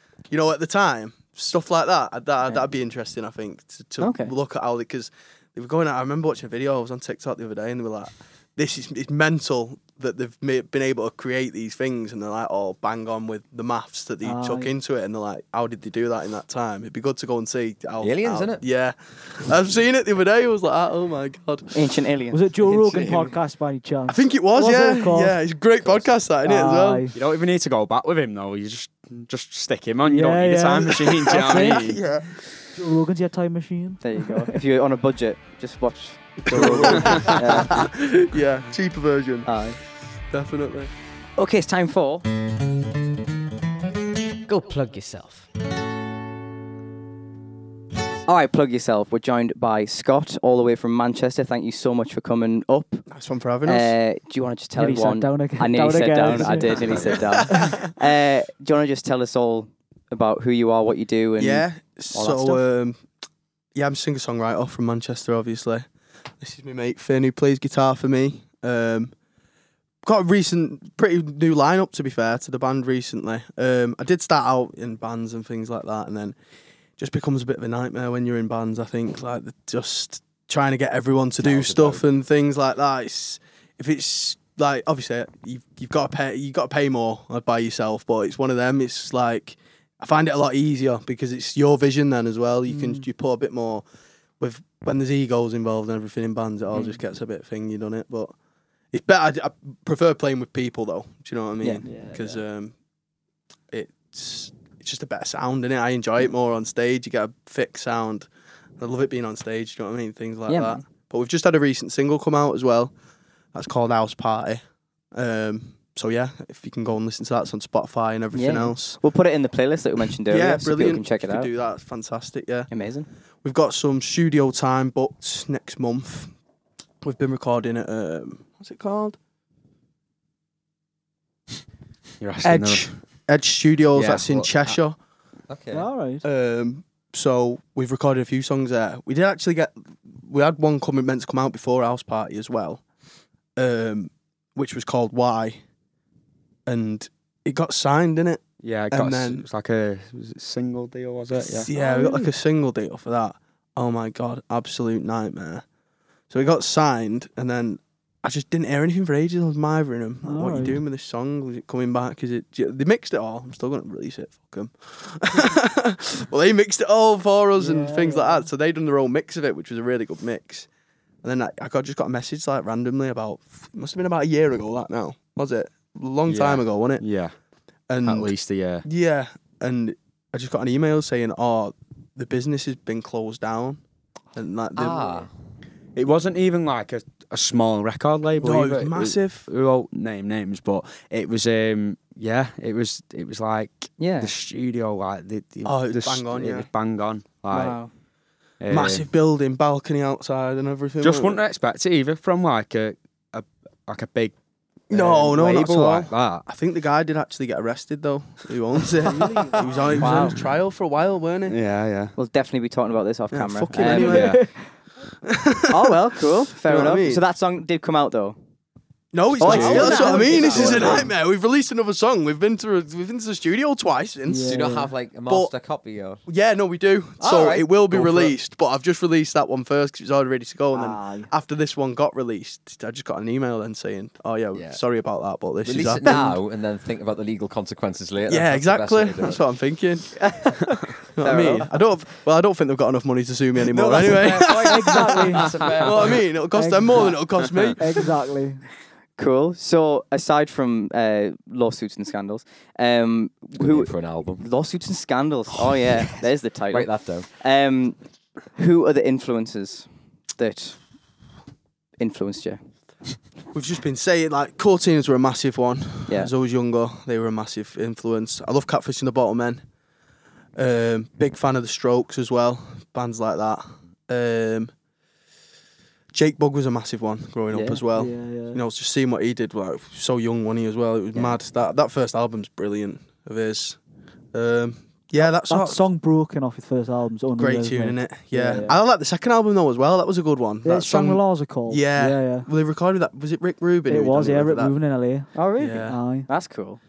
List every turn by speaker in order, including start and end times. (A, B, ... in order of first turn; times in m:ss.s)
0:00.3-0:21.8 A
0:04.0-0:04.3 B
0:14.2-0:14.7 C
0:18.0-0:18.6 D
0:21.7-0:22.4 B
0:22.3-0:25.4 C
0:22.6-0:23.3 D
0:24.1-0:27.0 A
0:26.4-0:27.2 C
0:27.1-0:32.0 E
0:30.0-0:32.0 C
0:31.0-0:32.5 A
0:32.7-0:34.6 C
0:34.0-0:37.9 B
0:36.4-0:39.5 A
0:36.9-0:37.4 E
0:39.4-0:39.8 B
0:40.3-0:40.9 A
0:41.4-0:42.2 B
0:44.5-0:45.4 B
0:48.2-0:53.0 B
0:53.1-0:53.9 A
0:53.6-1:02.6 B
0:54.8-0:57.8 C
0:56.4-0:57.9 A
0:56.8-0:57.2 D
1:01.4-1:03.0 A
1:03.7-1:05.8 A
1:06.4-1:09.1 A
1:10.0-1:16.4 A
1:17.0-1:33.8 A
1:21.4-1:22.0 D
1:32.7-1:33.0 C
1:34.4-1:38.3 A
1:38.9-1:42.7 A
1:41.8-1:42.4 C
1:43.7-1:48.3 A
1:48.8-1:52.9 A
1:50.5-1:50.8 B
1:53.5-1:54.6 A
1:55.1-1:59.0 A
1:58.3-2:01.5 B
2:00.2-2:02.7 A
2:02.7-2:03.1 B
2:03.4-2:06.3 A
2:07.0-2:09.2 A
2:12.2-2:13.0 E
2:12.4-2:15.0 A
2:13.9-2:14.5 E
2:15.5-2:15.9 D
2:15.7-2:16.2 C
2:16.2-2:22.8 A
2:23.6-2:25.6 A
2:26.6-2:29.4 A
2:28.6-2:31.7 E
2:31.4-2:35.6 A
2:31.7-2:32.3 C
2:36.3-2:50.7 A
2:40.2-2:40.8 C
2:47.6-2:48.4 C
2:51.2-2:57.0 A
2:56.3-2:57.3 E
2:57.9-2:58.3 A
2:58.0-2:58.8 E
2:58.8-3:03.8 A
3:04.3-3:05.3 A
3:04.8-3:05.3 D
3:05.9-3:17.8 E
3:08.4-3:09.5 A
3:14.0-3:14.3 B
3:15.6-3:16.7 A
3:17.5-3:17.9 B
3:18.6-3:19.1 E
3:18.7-3:21.4 A
3:21.0-3:24.3 E
3:24.9-3:26.4 E
3:24.9-3:31.6 A
3:29.0-3:30.1 C
3:30.0-3:30.4 B
3:31.5-3:32.1 E
3:32.2-3:34.2 B
3:33.3-3:34.4 A
3:33.8-3:34.7 C
3:33.9-3:34.4 E
3:35.2-3:36.0 A
3:35.7-3:38.4 B
3:36.5-3:37.2 A
3:39.1-3:44.7 A
3:39.4-3:41.1 B
3:39.4-3:40.8 C
3:39.5-3:41.1 D
3:44.3-3:44.9 C
3:44.4-3:46.2 D
3:46.2-3:56.3 A
3:47.2-3:48.3 D
3:50.7-3:51.3 C
3:54.5-3:54.8 D
3:55.6-3:59.4 D
3:58.3-4:00.3 A
4:00.2-4:01.7 B
4:01.1-4:07.8 A
4:03.7-4:06.2 D
4:04.4-4:05.7 C
4:06.5-4:07.2 C
4:07.8-4:08.6 C
4:09.2-4:18.0 B
4:13.6-4:14.4 D
4:15.7-4:17.3 D
4:18.5-4:20.8 B
4:22.0-4:22.6 B
4:23.5-4:29.6 A
4:30.5-4:34.7 A
4:36.1-4:43.8 A
4:37.5-4:37.8 B
4:37.9-4:38.6 C
4:44.3-4:45.8 A
4:45.2-4:48.8 C
4:47.4-4:54.7 A
4:50.6-4:52.5 C
4:53.9-4:56.3 C
4:55.3-4:56.8 B
4:55.6-4:56.0 A